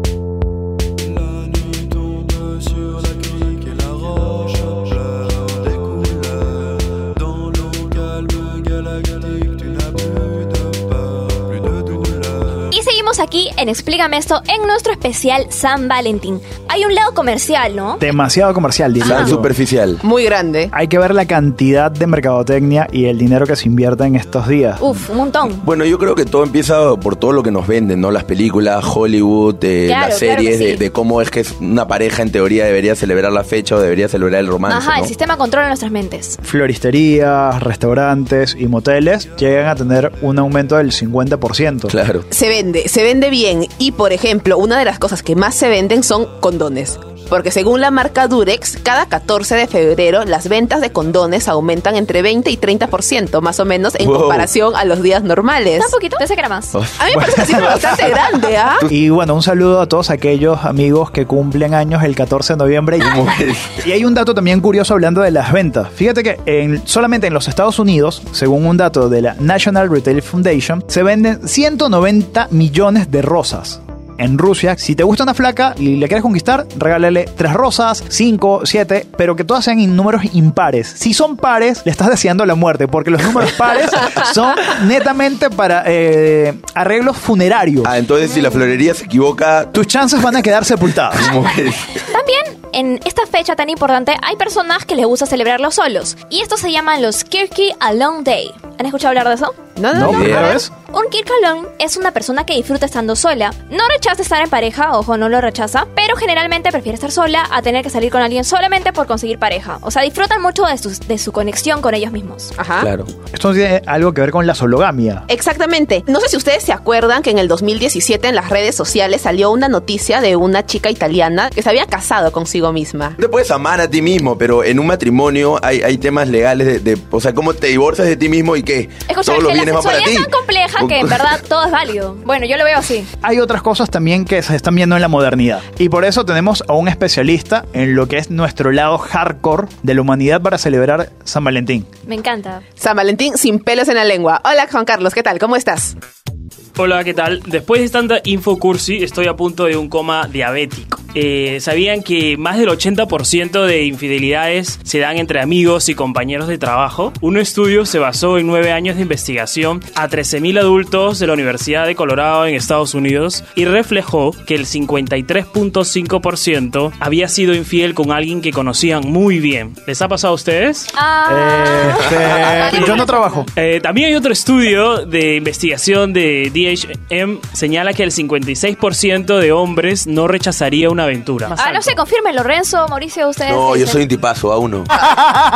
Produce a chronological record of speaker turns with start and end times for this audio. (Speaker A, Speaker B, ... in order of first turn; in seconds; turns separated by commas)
Speaker A: 12.7-18.0, Speaker B: 18.0-19.5, Speaker C: 19.0-20.0, Speaker D: 20.0-20.7, Speaker B: 20.7-25.0, Speaker A: 24.8-25.7, Speaker C: 25.6-35.1, Speaker A: 29.9-30.8, Speaker A: 34.7-36.4, Speaker B: 36.4-41.9, Speaker C: 41.9-42.2, Speaker D: 42.3-56.0, Speaker C: 54.0-54.5, Speaker A: 55.8-56.8, Speaker C: 56.7-57.9, Speaker D: 57.0-58.8, Speaker B: 57.1-57.8, Speaker B: 58.9-63.2, Speaker C: 63.0-63.8, Speaker B: 63.8-87.9, Speaker C: 87.8-89.8, Speaker B: 89.7-91.3, Speaker C: 91.2-91.9, Speaker A: 92.1-112.5, Speaker D: 99.8-100.6, Speaker B: 99.9-100.7, Speaker C: 100.2-100.4, Speaker D: 112.6-112.9, Speaker C: 112.8-113.1, Speaker B: 113.3-115.3, Speaker D: 115.3-123.2, Speaker C: 123.2-131.3, Speaker A: 129.1-133.1, Speaker B: 133.2-141.9, Speaker A: 142.1-142.6, Speaker D: 142.8-145.9, Speaker E: 146.8-170.9, Speaker A: 170.9-173.5, Speaker B: 171.2-173.5, Speaker E: 172.7-182.0, Speaker A: 181.5-184.1, Speaker C: 183.4-185.0, Speaker B: 185.1-185.4